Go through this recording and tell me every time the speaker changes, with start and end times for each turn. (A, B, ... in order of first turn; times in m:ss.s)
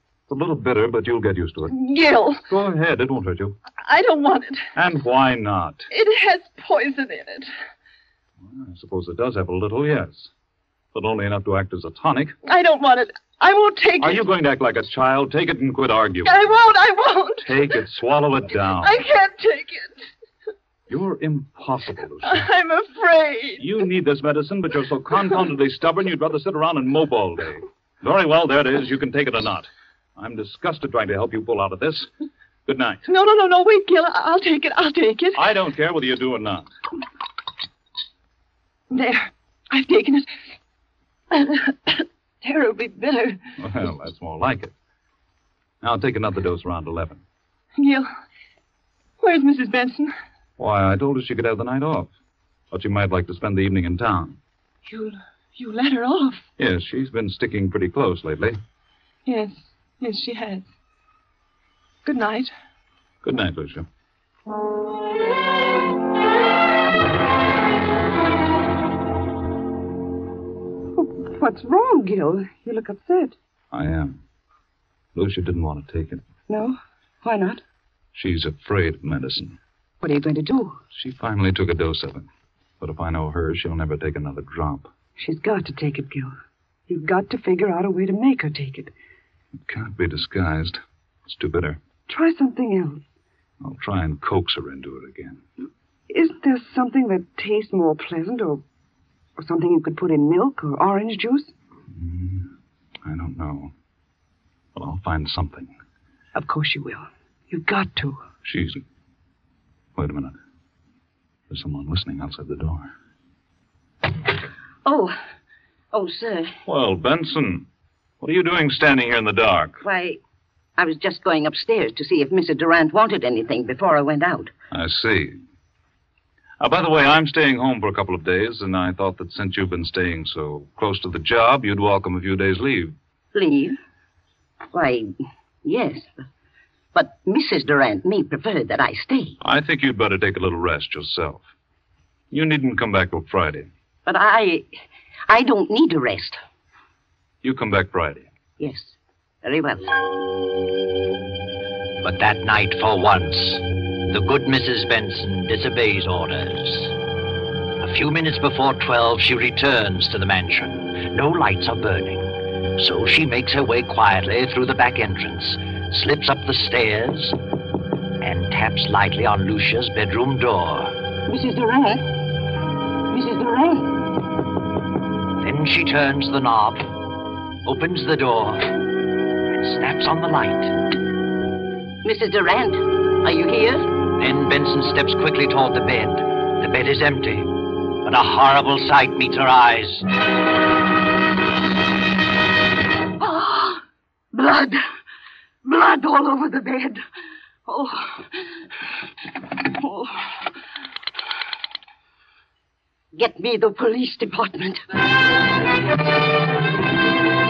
0:00.3-0:01.7 A
0:01.7-0:02.5 B
0:02.5-0:03.6 A
0:03.8-0:04.7 B
0:04.8-0:05.9 A
0:05.9-0:07.5 B
0:08.5-0:10.3 A
0:10.9-0:12.4 A
0:12.4-0:14.3 B
0:14.0-0:16.4 A
0:16.2-0:17.7 B
0:17.4-0:19.0 A
0:18.8-0:20.1 B
0:20.9-0:22.5 A
0:22.2-0:23.7 B
0:23.6-0:32.1 A
0:32.7-0:33.0 A
0:33.0-0:35.4 B
0:35.4-0:36.7 A
0:38.9-0:40.3 B
0:41.3-0:43.4 B
0:43.6-0:44.7 A
0:45.8-0:47.2 A
0:47.8-0:48.1 B
0:49.2-0:50.2 B
0:50.6-0:52.1 A
0:52.7-0:54.4 A
0:54.8-0:56.5 B
0:56.6-0:58.6 A
0:59.3-1:00.7 B
1:02.0-1:02.5 B
1:03.2-1:03.9 A
1:11.0-1:13.4 C
1:13.7-1:14.2 A
1:15.2-1:16.2 A
1:16.5-1:17.6 C
1:18.2-1:19.6 A
1:20.0-1:20.8 C
1:21.0-1:22.3 A
1:22.8-1:24.9 A
1:25.2-1:26.3 C
1:26.9-1:28.9 C
1:29.7-1:31.8 A
1:32.1-1:33.0 C
1:33.6-1:35.4 A
1:36.1-1:38.6 C
1:39.4-1:41.5 C
1:41.9-1:42.5 A
1:43.0-1:43.7 A
1:44.8-1:45.7 A
1:46.4-1:48.2 C
1:48.4-1:48.8 A
1:50.0-1:50.4 A
1:51.5-1:52.9 A
1:54.8-1:55.2 D
1:55.9-1:56.6 D
1:56.7-1:57.7 A
1:58.2-1:59.8 A
1:59.8-2:00.2 D
2:00.8-2:04.5 D
2:04.7-2:05.4 A
2:06.6-2:12.9 A
2:13.3-2:13.8 D
2:14.7-2:15.1 D
2:15.6-2:16.1 D
2:17.0-2:19.4 D
2:19.4-2:21.4 A
2:22.3-2:23.7 A
2:24.1-2:24.7 D
2:25.3-2:26.4 D
2:27.4-2:28.3 A
2:28.6-2:29.9 D
2:32.0-2:37.0 E
2:37.8-2:47.4 E
2:48.2-2:51.0 E
2:51.3-2:52.1 D
2:53.1-2:54.0 D
2:55.4-2:56.9 E
2:57.6-2:58.7 E
2:59.5-3:00.7 E
3:02.0-3:03.9 D
3:04.2-3:10.1 E
3:13.2-3:14.8 D
3:15.6-3:17.0 D
3:17.7-3:18.5 D
3:19.7-3:20.4 D
3:23.2-3:24.9 D